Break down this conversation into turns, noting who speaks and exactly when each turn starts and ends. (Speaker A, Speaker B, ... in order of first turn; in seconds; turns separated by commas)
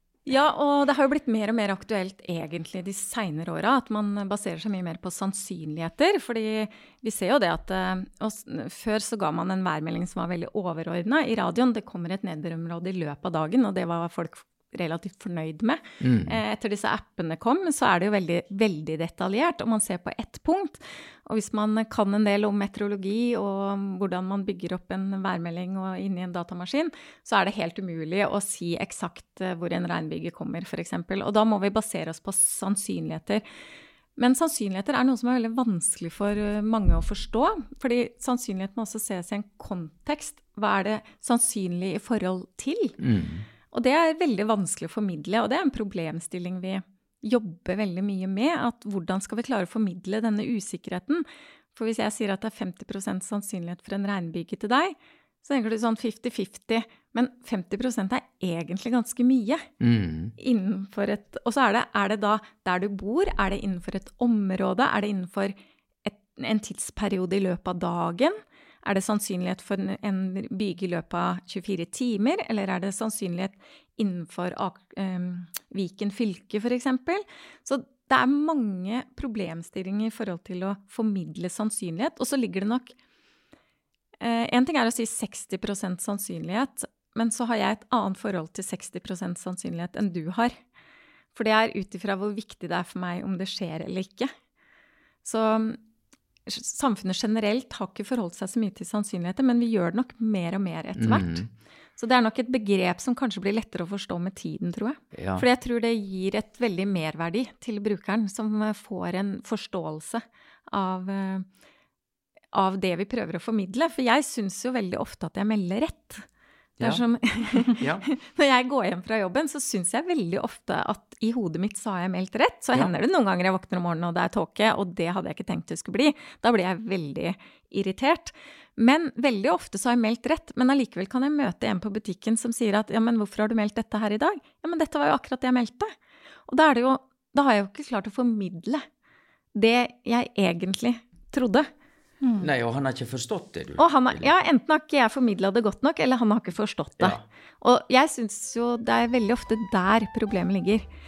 Speaker A: 0.2-33.4, Speaker B: 16.0-16.4, Speaker A: 34.2-43.0, Speaker B: 43.0-43.5, Speaker A: 43.7-59.6, Speaker B: 59.8-60.3, Speaker A: 60.4-82.9, Speaker A: 84.2-90.5, Speaker A: 91.3-94.3, Speaker A: 95.2-95.8, Speaker A: 96.5-111.5, Speaker B: 101.0-101.5, Speaker B: 105.1-105.5, Speaker A: 112.5-116.2, Speaker A: 116.8-135.9, Speaker B: 117.8-118.0, Speaker A: 136.5-138.8, Speaker A: 139.5-141.7, Speaker B: 142.4-144.3, Speaker A: 143.8-150.8, Speaker B: 147.0-147.2